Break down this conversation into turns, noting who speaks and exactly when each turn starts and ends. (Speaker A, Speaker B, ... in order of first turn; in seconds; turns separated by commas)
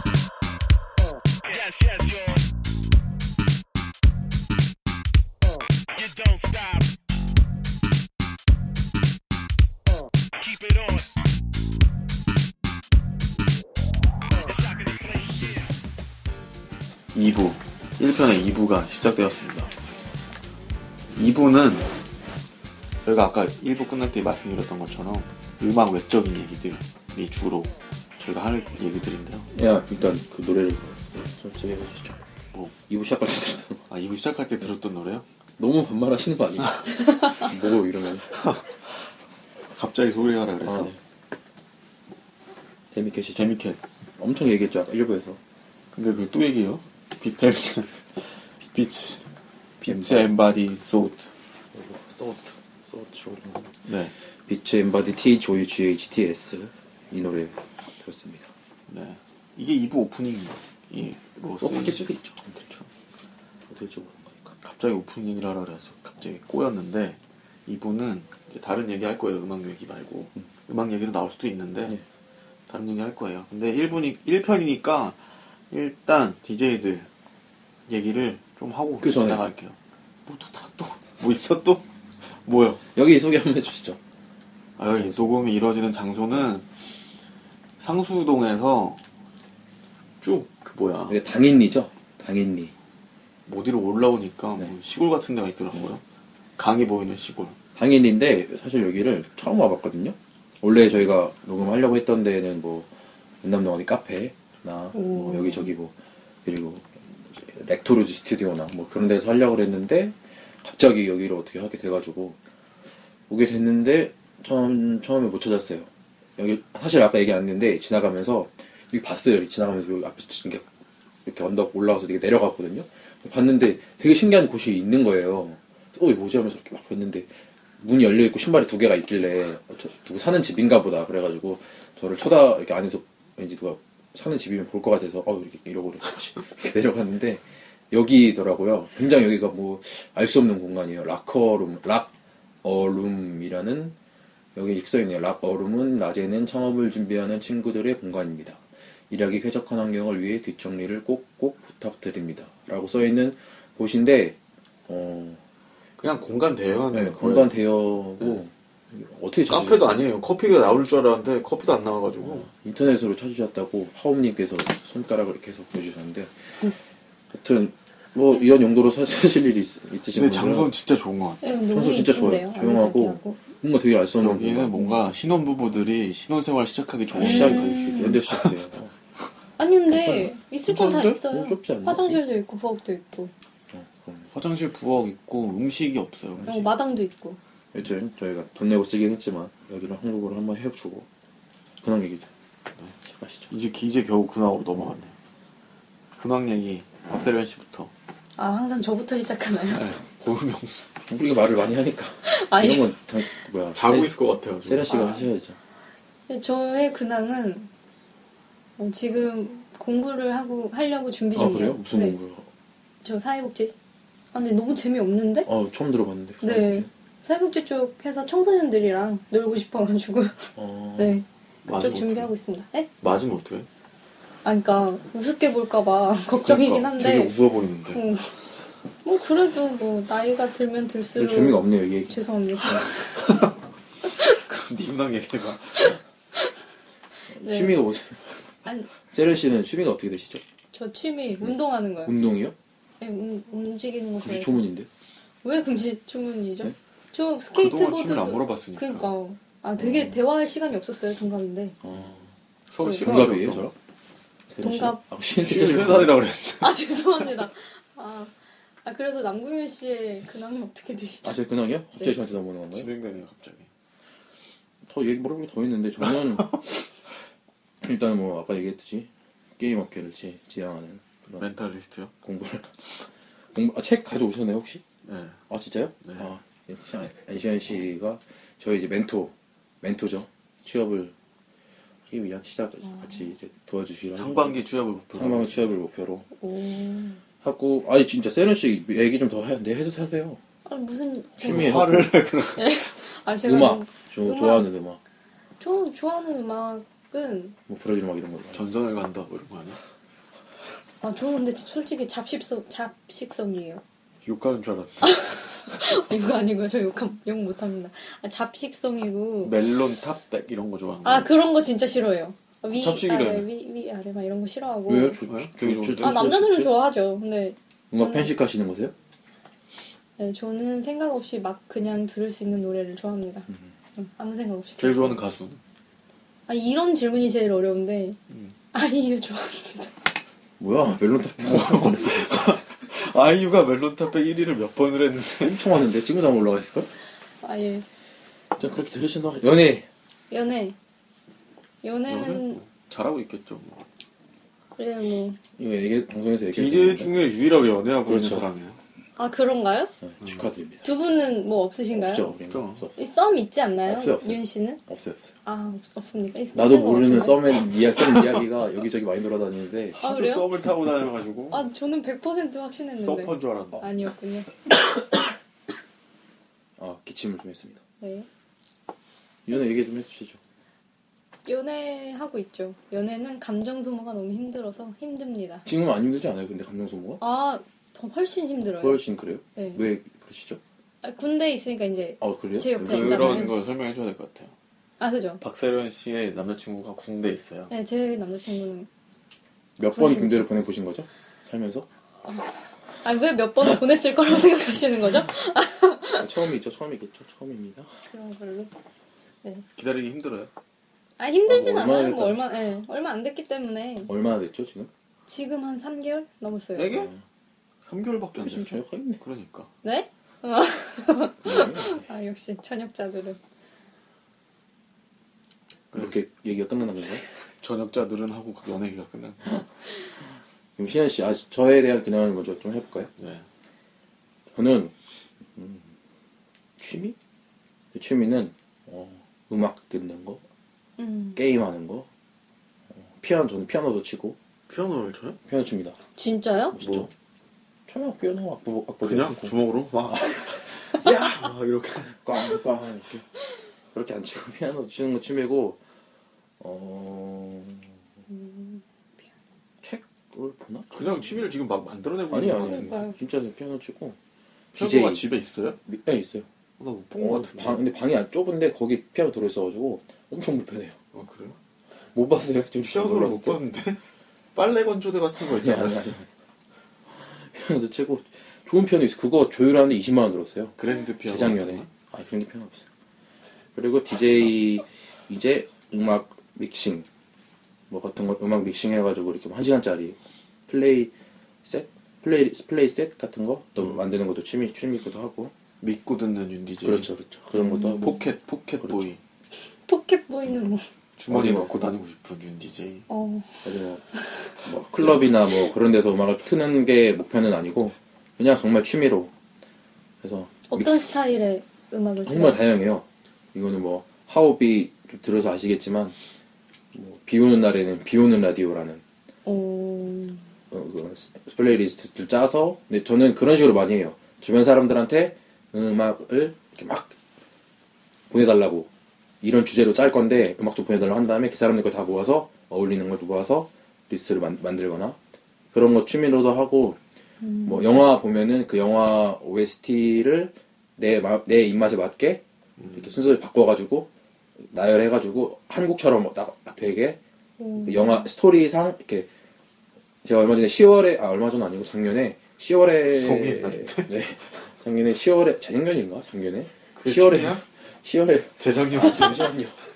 Speaker A: 1.5-2.4, Speaker A: 6.0-6.9, Speaker A: 10.4-11.1, Speaker A: 14.4-15.7, Speaker B: 17.1-19.7, Speaker B: 21.1-21.9, Speaker B: 23.1-29.5, Speaker C: 29.5-32.2, Speaker C: 32.9-33.8, Speaker B: 33.9-35.2, Speaker C: 35.6-38.4, Speaker B: 38.3-39.0, Speaker B: 39.8-40.9, Speaker C: 40.6-41.0, Speaker C: 42.9-43.5, Speaker B: 43.4-43.8, Speaker C: 44.2-45.4, Speaker B: 45.9-49.2, Speaker B: 49.8-51.3, Speaker C: 49.9-50.3, Speaker C: 51.7-53.8, Speaker B: 53.9-54.1, Speaker C: 54.5-58.5, Speaker B: 58.9-62.1, Speaker C: 61.6-62.9, Speaker C: 63.7-64.6, Speaker B: 64.6-72.0, Speaker B: 72.7-75.2, Speaker B: 75.7-77.1, Speaker B: 77.9-82.8, Speaker C: 79.0-79.4, Speaker C: 83.0-84.0, Speaker B: 84.8-86.7, Speaker C: 85.0-85.3, Speaker B: 87.8-89.0, Speaker B: 90.2-91.2, Speaker C: 91.1-92.7, Speaker B: 93.5-96.0, Speaker B: 96.6-97.6, Speaker C: 97.8-102.9, Speaker C: 103.4-105.9, Speaker D: 104.9-105.7, Speaker C: 106.5-112.4, Speaker C: 113.3-120.7, Speaker C: 121.2-143.9, Speaker C: 144.6-155.4, Speaker B: 156.0-157.6, Speaker C: 156.9-160.0, Speaker B: 159.5-162.5, Speaker C: 162.2-166.7, Speaker C: 167.3-170.7, Speaker B: 170.1-171.6, Speaker D: 171.4-173.4, Speaker C: 171.7-174.8, Speaker B: 174.2-178.6, Speaker C: 177.1-178.9, Speaker D: 177.2-178.2, Speaker D: 179.6-183.3, Speaker C: 179.9-180.3, Speaker B: 180.7-181.2, Speaker C: 181.2-182.2, Speaker C: 183.7-184.3, Speaker B: 184.3-186.7, Speaker D: 186.5-187.4, Speaker C: 187.7-191.1, Speaker C: 191.8-192.3, Speaker C: 193.0-193.5, Speaker B: 193.5-195.1, Speaker B: 196.2-197.9, Speaker D: 198.4-199.8, Speaker B: 199.7-200.9, Speaker C: 201.1-205.6, Speaker D: 202.2-203.0, Speaker B: 203.7-205.2, Speaker D: 204.9-205.3, Speaker D: 206.3-207.7, Speaker D: 208.8-212.2, Speaker C: 211.3-212.5, Speaker D: 213.0-213.7, Speaker D: 214.3-215.5, Speaker C: 215.5-216.9, Speaker D: 216.4-222.9, Speaker C: 220.6-221.2, Speaker B: 221.7-222.3, Speaker B: 223.0-223.7, Speaker D: 224.4-227.3, Speaker B: 226.4-228.0, Speaker D: 227.9-228.3, Speaker D: 229.0-233.2, Speaker C: 231.2-232.9, Speaker B: 233.2-233.4, Speaker B: 234.2-235.9, Speaker C: 237.3-238.2, Speaker D: 237.4-237.8, Speaker D: 238.7-238.9, Speaker C: 239.1-240.4, Speaker D: 240.7-242.2, Speaker C: 241.4-242.6, Speaker D: 243.0-244.6, Speaker C: 244.2-244.9, Speaker D: 245.4-251.8, Speaker B: 247.5-249.1, Speaker C: 249.8-250.2, Speaker C: 251.8-252.3, Speaker B: 252.7-253.8, Speaker C: 253.0-253.7, Speaker C: 254.5-256.2, Speaker D: 254.6-255.0, Speaker B: 255.3-257.0, Speaker D: 256.6-258.3, Speaker D: 258.8-261.4, Speaker C: 261.2-262.9, Speaker B: 262.7-263.7, Speaker C: 264.9-266.6, Speaker C: 267.8-271.5, Speaker B: 271.4-272.1, Speaker C: 272.2-272.9, Speaker C: 273.5-274.8, Speaker B: 275.1-275.4, Speaker C: 275.5-281.1, Speaker B: 276.0-276.3, Speaker C: 282.1-284.6, Speaker B: 284.1-285.7, Speaker C: 285.1-286.3, Speaker D: 286.4-287.2, Speaker C: 287.4-290.4, Speaker D: 290.6-291.9, Speaker B: 291.4-292.7, Speaker C: 291.4-292.1, Speaker D: 292.6-294.7, Speaker C: 293.4-295.0, Speaker D: 295.6-297.6, Speaker C: 297.7-298.6, Speaker B: 298.5-299.8, Speaker D: 301.0-303.8, Speaker B: 304.2-305.4, Speaker D: 305.0-309.6, Speaker B: 309.4-311.3, Speaker D: 311.1-315.2, Speaker B: 312.8-313.5, Speaker C: 314.9-316.7, Speaker B: 315.3-316.4, Speaker D: 316.0-318.3, Speaker C: 317.9-318.9, Speaker D: 320.2-325.2, Speaker B: 324.8-325.6, Speaker D: 326.5-328.2, Speaker D: 328.7-329.9, Speaker C: 330.6-332.6, Speaker B: 331.4-335.7, Speaker C: 335.4-336.9, Speaker D: 337.4-337.9, Speaker C: 338.6-339.9, Speaker D: 340.3-340.8, Speaker D: 341.8-342.6, Speaker B: 342.1-343.9, Speaker D: 344.8-345.4, Speaker C: 345.6-347.1, Speaker B: 346.5-348.8, Speaker C: 348.1-348.5, Speaker D: 349.2-349.9, Speaker C: 350.0-350.9, Speaker D: 350.9-352.3, Speaker C: 351.9-352.9, Speaker B: 352.5-352.9, Speaker D: 353.0-354.8, Speaker C: 353.9-355.4, Speaker D: 355.4-357.5, Speaker C: 356.5-360.0, Speaker D: 360.0-360.5, Speaker B: 360.0-361.7, Speaker D: 361.5-364.5, Speaker B: 363.0-363.9, Speaker C: 366.8-367.8, Speaker D: 368.0-368.3, Speaker C: 369.5-370.4, Speaker D: 371.4-375.7, Speaker C: 375.7-377.2, Speaker D: 377.2-379.0, Speaker C: 378.8-380.6, Speaker D: 379.6-379.9, Speaker D: 381.0-383.6, Speaker C: 382.2-383.5, Speaker B: 382.8-384.5, Speaker D: 385.0-385.4, Speaker B: 385.4-387.7, Speaker D: 387.7-388.9, Speaker C: 389.8-391.9, Speaker D: 389.9-390.5, Speaker D: 392.2-396.4, Speaker C: 396.2-397.9, Speaker D: 398.1-398.8, Speaker B: 399.8-400.5, Speaker D: 401.2-404.1, Speaker C: 401.5-402.5, Speaker C: 404.1-404.9, Speaker D: 405.3-406.9, Speaker B: 406.8-407.1, Speaker C: 406.9-407.2, Speaker B: 407.9-409.7, Speaker C: 408.4-409.2, Speaker D: 409.8-413.4, Speaker C: 411.4-412.0, Speaker B: 415.9-416.2, Speaker C: 415.9-417.2, Speaker B: 417.6-419.6, Speaker C: 420.8-423.1, Speaker B: 423.2-423.4, Speaker C: 424.5-424.9, Speaker C: 425.6-425.9, Speaker C: 426.8-427.2, Speaker C: 427.9-430.4, Speaker D: 431.0-431.4, Speaker C: 431.4-432.1, Speaker C: 432.9-434.4, Speaker B: 434.7-435.4, Speaker C: 435.5-436.0, Speaker D: 436.2-436.8, Speaker C: 436.7-437.1, Speaker B: 436.8-437.1, Speaker C: 437.9-439.6, Speaker B: 439.0-442.9, Speaker C: 440.1-440.4, Speaker C: 442.2-443.2, Speaker C: 443.9-445.8, Speaker C: 446.6-447.9, Speaker D: 448.3-448.8, Speaker C: 449.8-451.4, Speaker B: 450.9-453.1, Speaker C: 452.3-454.2, Speaker D: 452.6-453.2, Speaker C: 454.7-455.3, Speaker B: 454.8-455.8, Speaker C: 455.9-456.5, Speaker B: 456.8-457.8, Speaker C: 457.2-461.0, Speaker B: 461.1-461.6, Speaker C: 462.1-463.6, Speaker B: 462.6-464.0, Speaker B: 464.6-466.2, Speaker C: 465.4-466.2, Speaker C: 467.1-472.9, Speaker B: 470.8-471.9, Speaker C: 473.8-477.1, Speaker C: 477.9-481.1, Speaker C: 481.6-485.5, Speaker B: 485.8-487.1, Speaker C: 486.8-488.1, Speaker D: 487.6-488.2, Speaker B: 487.9-489.2, Speaker C: 488.8-489.1, Speaker D: 489.9-490.9, Speaker B: 491.2-493.1, Speaker C: 491.3-491.8, Speaker D: 493.1-493.6, Speaker C: 493.6-494.0, Speaker C: 494.6-499.3, Speaker C: 500.2-501.1, Speaker D: 500.7-502.6, Speaker C: 502.3-506.2, Speaker C: 506.9-509.0, Speaker D: 509.5-510.4, Speaker C: 510.7-517.1, Speaker C: 518.3-518.9, Speaker C: 519.4-525.2, Speaker C: 525.7-527.0, Speaker D: 527.4-527.9, Speaker C: 527.6-532.4, Speaker B: 532.8-533.1, Speaker C: 532.9-534.1, Speaker C: 534.6-537.2, Speaker D: 537.6-538.2, Speaker C: 537.8-539.3, Speaker C: 540.2-549.8, Speaker B: 543.1-544.1, Speaker B: 547.0-547.6, Speaker B: 548.6-549.5